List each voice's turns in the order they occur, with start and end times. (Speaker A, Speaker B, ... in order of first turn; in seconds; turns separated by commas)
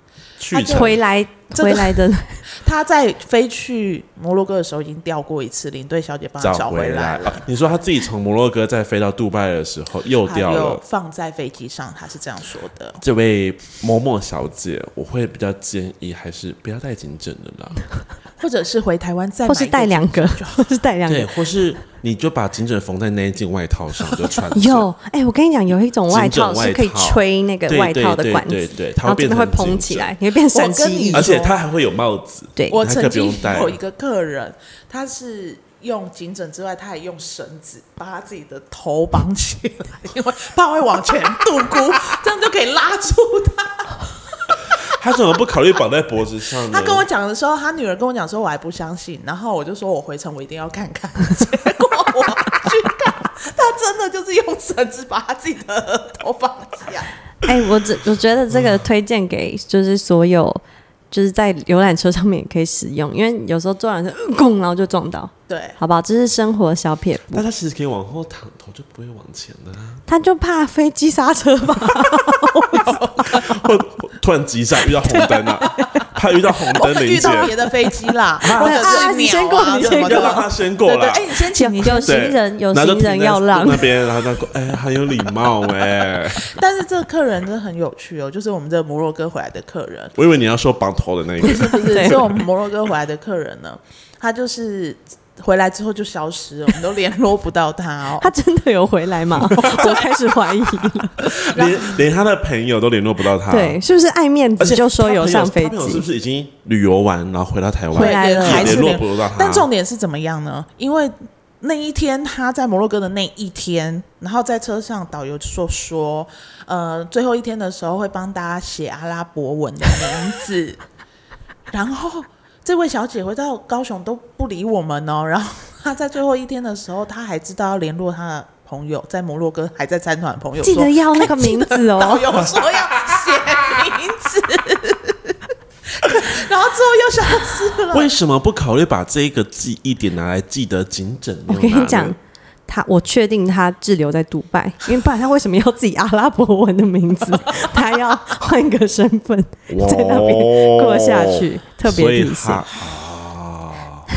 Speaker A: 0.4-1.0, Speaker B: 0.5-1.0, Speaker C: 0.7-2.4, Speaker B: 1.5-2.0, Speaker B: 2.6-7.4, Speaker A: 6.4-10.8, Speaker B: 10.2-13.0, Speaker A: 13.0-17.8, Speaker B: 18.4-20.7, Speaker C: 19.4-21.3, Speaker A: 21.1-24.9, Speaker C: 24.5-31.3, Speaker A: 26.1-30.1, Speaker B: 30.5-31.6, Speaker A: 31.1-33.8, Speaker B: 32.7-44.1, Speaker A: 44.8-47.1, Speaker B: 46.7-57.1, Speaker C: 57.4-67.4, Speaker B: 65.5-65.8, Speaker A: 67.3-70.0, Speaker C: 70.1-73.0, Speaker A: 73.2-77.6, Speaker C: 75.0-76.0, Speaker B: 76.8-82.3, Speaker C: 77.2-77.5, Speaker A: 78.4-79.1, Speaker C: 78.4-80.5, Speaker A: 79.7-81.3, Speaker C: 81.5-83.9, Speaker A: 82.0-86.5, Speaker B: 86.4-90.1, Speaker A: 90.2-92.2, Speaker B: 91.4-98.3, Speaker C: 91.5-92.4, Speaker C: 98.2-101.3, Speaker B: 99.6-100.0, Speaker A: 101.2-103.8, Speaker B: 101.5-102.0, Speaker C: 103.5-106.0, Speaker A: 104.6-109.7, Speaker C: 107.9-109.0, Speaker B: 108.0-120.8, Speaker B: 121.7-135.4, Speaker C: 130.6-132.3, Speaker B: 136.0-138.1, Speaker A: 137.9-142.2, Speaker C: 141.5-152.7, Speaker A: 149.7-154.1